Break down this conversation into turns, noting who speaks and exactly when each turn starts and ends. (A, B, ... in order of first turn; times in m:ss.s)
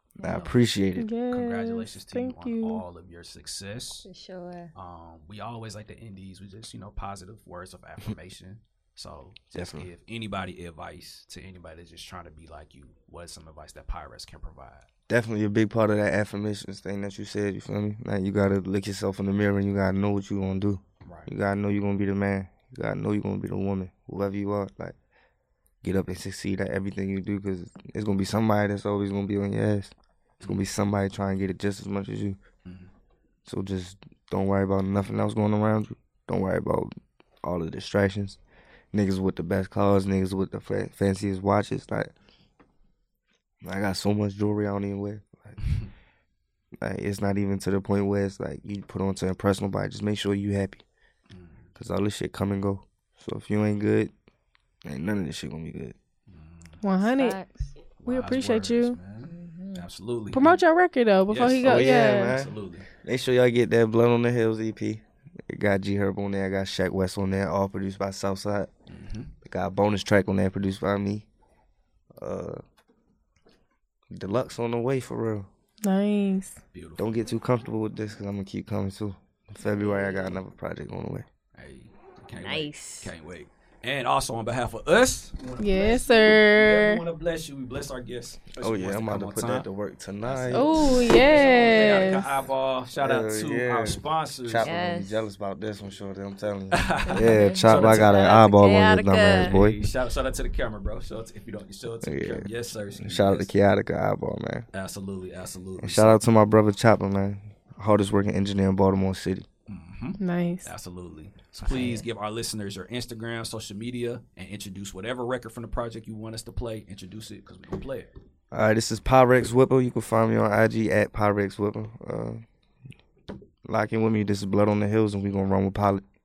0:00.2-0:01.1 A
0:01.0-0:02.8 B
0:01.3-0:04.1 C
0:04.0-0:04.7 D
0:04.7-0:14.9 C
0:09.5-0:09.9 A
0:15.1-0:25.0 A
0:21.0-0:21.3 C
0:25.8-0:32.4 A
0:32.6-0:32.9 C
0:33.4-0:36.9 A
0:37.4-0:38.4 A
0:38.9-0:42.1 A
0:43.6-0:45.6 A
0:45.6-0:45.9 C
0:46.8-0:50.8 A
0:51.3-0:51.7 C
0:51.8-0:54.1 A
0:54.8-0:55.9 A
0:56.3-0:56.8 C
0:56.8-0:57.4 B
0:57.0-0:57.7 D
0:58.0-1:00.6 C
0:58.0-0:59.0 B
0:59.2-0:59.8 D
1:00.3-1:02.3 B
1:01.3-1:02.9 C
1:01.6-1:08.7 A
1:08.9-1:09.3 C
1:09.4-1:11.2 A
1:12.2-1:12.6 A
1:14.1-1:15.5 A
1:15.8-1:16.6 B
1:16.7-1:17.1 C
1:17.0-1:21.3 A
1:19.8-1:20.3 C
1:21.5-1:29.7 C
1:22.4-1:23.1 D
1:25.6-1:27.0 B
1:28.6-1:30.8 A
1:30.2-1:34.7 C
1:30.5-1:32.3 B
1:31.4-1:31.9 D
1:33.0-1:39.8 A
1:34.6-1:35.3 D
1:36.7-1:38.2 C
1:37.0-1:39.5 D
1:39.3-1:43.5 C
1:42.0-1:44.7 A
1:44.7-1:46.2 C
1:45.8-1:49.4 A
1:49.7-1:58.1 C
1:50.2-1:50.7 B
1:51.6-1:52.0 D
1:58.5-2:02.4 A
2:03.6-2:06.0 A